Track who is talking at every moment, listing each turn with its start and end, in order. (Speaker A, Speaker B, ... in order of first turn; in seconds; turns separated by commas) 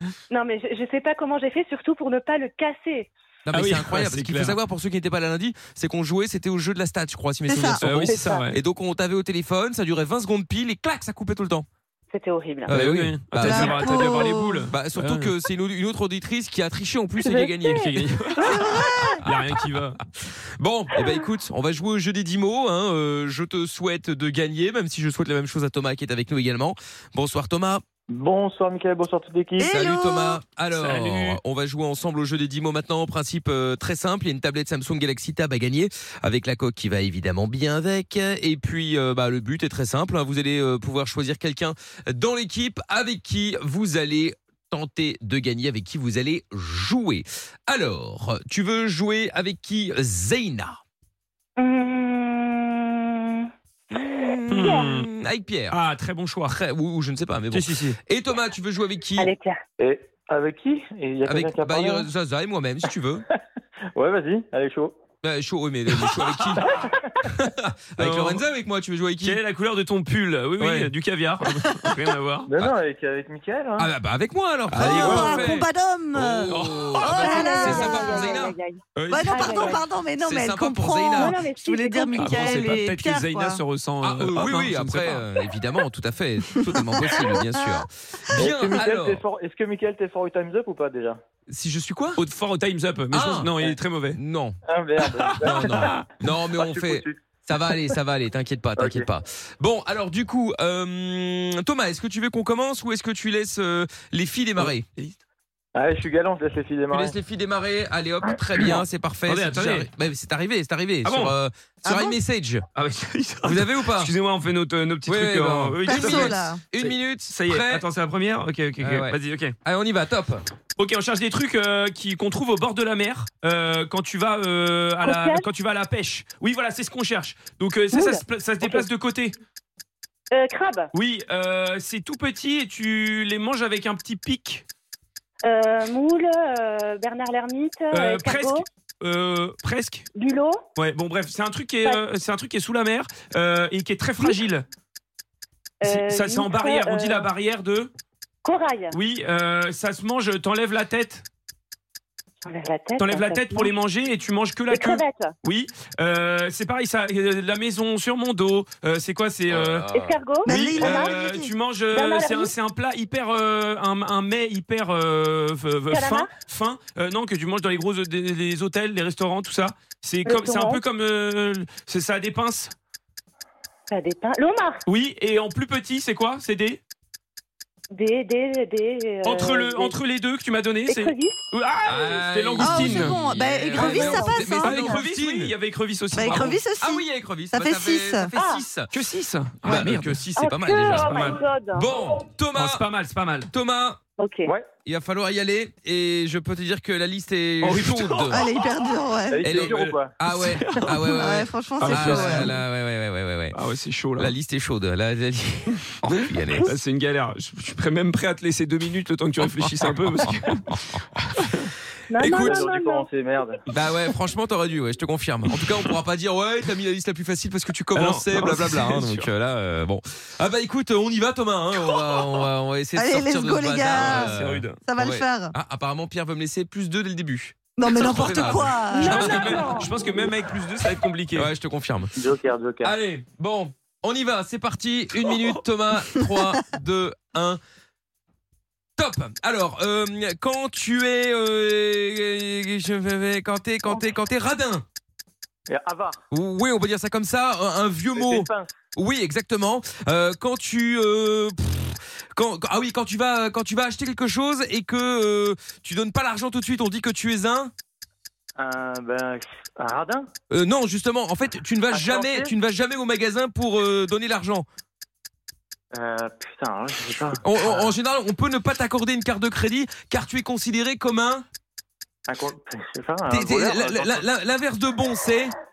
Speaker A: 0.3-3.1, Speaker B: 3.4-11.7, Speaker C: 3.5-4.6, Speaker D: 7.5-7.8, Speaker C: 7.8-8.6, Speaker A: 8.0-8.4, Speaker A: 12.1-12.8, Speaker B: 12.7-19.5, Speaker C: 12.7-15.3, Speaker D: 13.4-14.7, Speaker A: 17.2-17.8, Speaker C: 17.7-20.0, Speaker D: 18.5-19.2, Speaker B: 20.3-27.8, Speaker E: 28.1-29.7, Speaker D: 29.6-30.4, Speaker B: 29.6-50.8, Speaker C: 30.8-31.4, Speaker A: 51.6-53.5, Speaker B: 53.9-55.8, Speaker C: 54.5-55.1, Speaker A: 54.6-54.9, Speaker C: 55.7-56.6, Speaker B: 56.5-59.3, Speaker C: 57.5-58.0, Speaker A: 59.2-59.6, Speaker E: 59.8-62.0, Speaker B: 61.2-63.2, Speaker E: 63.9-64.9, Speaker B: 65.2-66.7, Speaker C: 66.0-66.6, Speaker B: 67.2-69.4, Speaker C: 68.0-68.4, Speaker C: 69.2-72.5, Speaker B: 70.6-70.9, Speaker E: 72.5-73.9, Speaker B: 73.8-81.4, Speaker C: 74.7-75.6, Speaker D: 74.8-78.5, Speaker C: 76.5-77.8, Speaker A: 77.0-79.8, Speaker D: 79.1-83.6, Speaker A: 81.2-82.4, Speaker C: 82.1-85.2, Speaker B: 84.0-89.2, Speaker D: 86.5-87.8, Speaker E: 88.3-91.2, Speaker B: 91.5-92.2, Speaker C: 92.2-94.2, Speaker B: 93.1-93.5, Speaker B: 94.1-94.6, Speaker E: 94.7-97.2, Speaker C: 95.0-96.1, Speaker B: 95.4-104.9, Speaker E: 98.8-99.0, Speaker C: 104.6-105.2, Speaker E: 105.7-107.2, Speaker B: 106.9-112.6, Speaker C: 109.3-109.9, Speaker C: 111.0-111.3, Speaker D: 111.8-112.2, Speaker C: 112.7-119.5, Speaker B: 113.4-114.1, Speaker B: 115.0-117.8, Speaker D: 115.8-116.6, Speaker B: 118.8-120.4, Speaker C: 120.8-129.3, Speaker A: 125.0-125.5, Speaker A: 127.9-128.8, Speaker A: 130.3-130.9, Speaker C: 130.9-134.6, Speaker A: 135.4-138.6, Speaker C: 137.9-140.1, Speaker A: 140.1-140.6, Speaker C: 140.8-144.6, Speaker A: 145.8-147.3, Speaker C: 145.8-147.9, Speaker A: 148.4-149.0, Speaker C: 148.9-151.2, Speaker A: 152.4-153.7, Speaker C: 153.0-159.9, Speaker A: 154.7-155.3, Speaker B: 159.5-160.2, Speaker A: 159.9-161.1, Speaker D: 160.4-161.5, Speaker C: 160.5-172.7, Speaker A: 161.9-162.5, Speaker A: 165.9-166.3, Speaker A: 170.2-170.8, Speaker A: 173.9-174.8, Speaker C: 174.8-176.8, Speaker A: 177.9-179.9, Speaker C: 179.2-183.2, Speaker A: 180.9-181.4, Speaker B: 181.8-185.5, Speaker D: 182.6-185.0, Speaker A: 183.7-184.3, Speaker C: 183.8-186.6, Speaker D: 186.1-188.3, Speaker B: 186.2-188.9, Speaker A: 188.3-188.6, Speaker C: 188.9-190.2, Speaker B: 189.6-192.8, Speaker A: 190.3-191.9, Speaker C: 190.9-191.4, Speaker C: 192.5-193.5, Speaker B: 193.5-194.0, Speaker A: 194.2-194.5, Speaker B: 194.8-198.4, Speaker C: 197.6-198.8, Speaker D: 198.3-199.5, Speaker E: 199.3-200.1, Speaker B: 199.4-203.6, Speaker C: 199.5-201.2, Speaker D: 201.1-202.5, Speaker C: 201.8-202.6, Speaker C: 203.5-204.3, Speaker B: 204.2-206.7, Speaker C: 206.0-210.8, Speaker C: 211.4-211.7, Speaker A: 212.1-213.1, Speaker B: 212.2-212.6, Speaker E: 212.3-213.6, Speaker B: 213.7-229.7, Speaker C: 217.9-219.3, Speaker D: 222.9-225.5, Speaker C: 223.9-224.8, Speaker D: 227.8-229.4, Speaker C: 227.9-231.5, Speaker A: 228.9-229.9, Speaker B: 231.3-232.1, Speaker E: 232.2-232.9, Speaker B: 232.8-237.6, Speaker B: 239.0-244.8, Speaker E: 245.7-246.2, Speaker B: 246.3-257.7, Speaker E: 248.1-248.7, Speaker E: 258.6-260.3, Speaker B: 260.5-264.6, Speaker E: 261.9-262.5, Speaker E: 265.9-267.9, Speaker B: 267.4-271.4, Speaker E: 272.3-274.2, Speaker B: 273.2-275.5